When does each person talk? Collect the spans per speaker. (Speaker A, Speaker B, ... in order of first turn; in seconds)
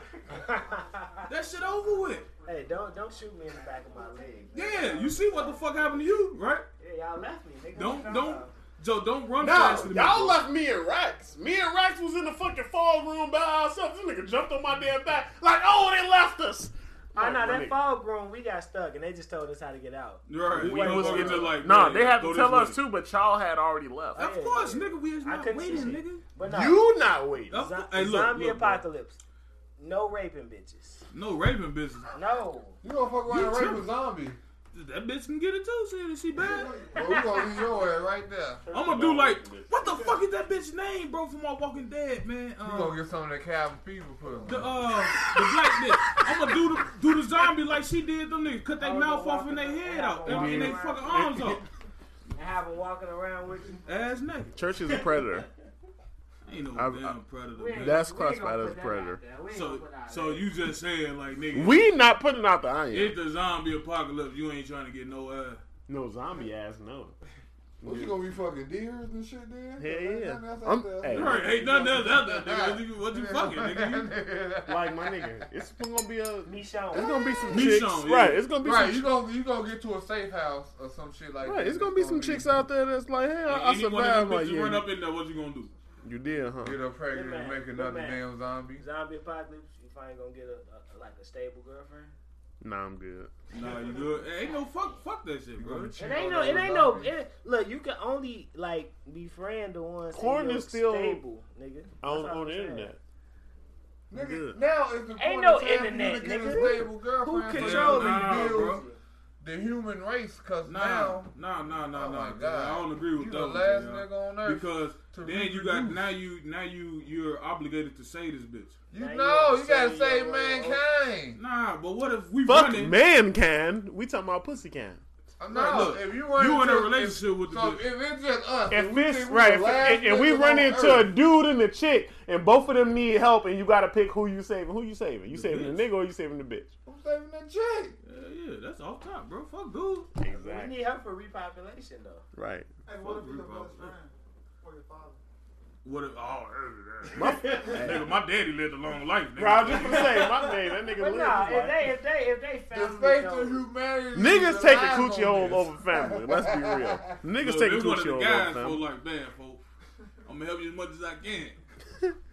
Speaker A: 0.3-1.2, 2.5-5.6, 6.8-8.5, 17.1-21.6, 24.1-26.9, 27.5-29.2, 29.8-31.1, 32.1-32.8, 36.7-37.6, 48.8-51.2, 52.4-53.8, 57.5-60.5, 76.5-77.7, 87.1-88.2, 88.8-92.1, 96.0-102.9, 105.2-109.0, 119.0-120.8, 140.3-142.2, 151.0-153.7
Speaker B: 0.5-2.0, 4.0-4.3, 142.9-145.2
Speaker C: 1.3-2.3, 4.5-6.7, 7.8-10.4, 20.3-22.8, 24.2-26.2, 27.5-28.8, 31.1-32.1, 33.3-33.9, 34.7-36.8, 38.7-43.0, 44.5-51.6, 53.9-54.6, 56.5-58.0, 59.5-61.8, 62.9-65.6, 71.1-74.1, 77.5-78.5, 83.5-85.7, 93.5-96.0, 107.5-108.8, 110.7-118.8, 121.3-123.0, 125.5-127.8, 135.3-135.9, 138.0-140.1, 143.0-143.9, 145.8-150.5, 155.3-155.6, 157.4-159.6, 160.2-161.6
Speaker D: 9.4-17.8, 20.5-24.3, 26.4-27.6, 38.7-40.1, 45.6-46.2, 50.2-51.7, 54.5-55.5, 56.8-57.2, 57.7-59.2, 61.5-63.2, 65.9-67.2, 67.8-68.2, 69.8-71.4, 74.7-79.0, 81.4-84.9, 86.0-86.8, 92.6-93.3, 95.6-95.9, 100.1-101.2, 102.0-103.0, 104.1-104.6, 122.5-125.0, 128.7-136.7, 140.2-140.8, 142.3-142.7, 147.1-148.1, 149.4-151.9, 154.1-158.8
Speaker E: 32.8-34.4, 36.4-38.6, 42.6-44.9, 67.8-75.5, 78.6-82.6, 86.6-88.8, 95.6-97.2, 104.1-108.8, 109.4-111.3, 111.9-116.1, 118.9-121.4, 125.4-131.1, 136.9-138.0, 152.7-157.2